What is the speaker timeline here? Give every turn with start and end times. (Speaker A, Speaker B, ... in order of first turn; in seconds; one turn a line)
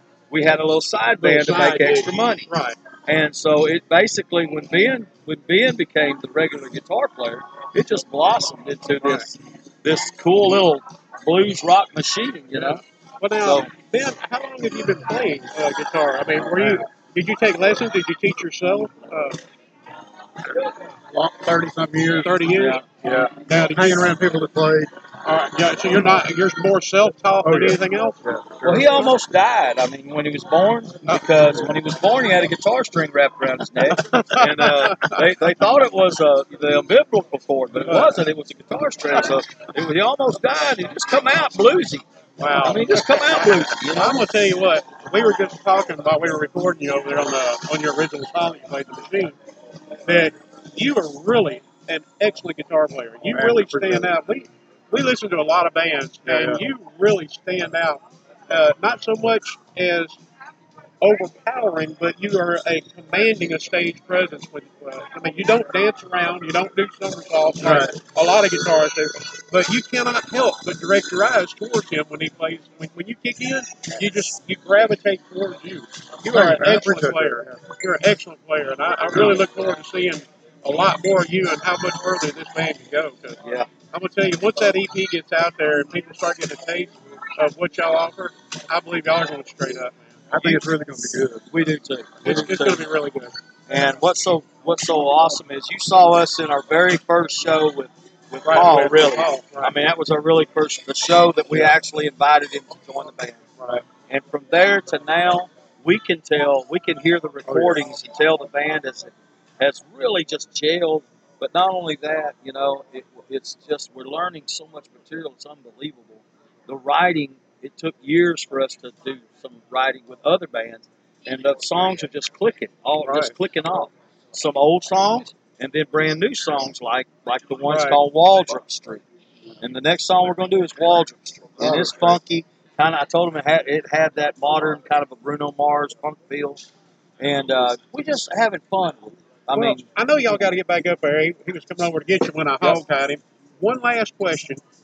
Speaker A: 0.3-2.5
Speaker B: 1.2-2.8
Speaker A: 3.1-12.8
Speaker B: 12.5-19.4
Speaker A: 13.4-13.7
Speaker C: 16.5-16.9
Speaker C: 21.1-24.9
Speaker B: 22.2-22.8
Speaker A: 22.5-22.8
Speaker B: 23.4-24.1
Speaker B: 25.2-29.0
Speaker C: 27.4-29.1
Speaker A: 28.6-44.3
Speaker B: 33.9-35.2
Speaker B: 37.8-38.2
Speaker B: 42.4-49.4
Speaker B: 50.0-60.2
Speaker C: 53.3-54.1
Speaker C: 56.2-56.7
Speaker B: 61.0-90.6
Speaker C: 67.6-68.0
Speaker C: 76.3-77.6
Speaker A: 83.4-83.7
Speaker C: 90.3-91.5
Speaker A: 91.5-92.9
Speaker B: 92.2-93.4
Speaker A: 93.7-103.4
Speaker B: 98.5-99.8
Speaker A: 104.1-129.0
Speaker C: 107.5-107.8
Speaker B: 123.0-123.3
Speaker B: 127.7-128.0
Speaker A: 129.6-136.6
Speaker C: 131.6-132.2
Speaker A: 137.2-139.8
Speaker B: 139.6-144.6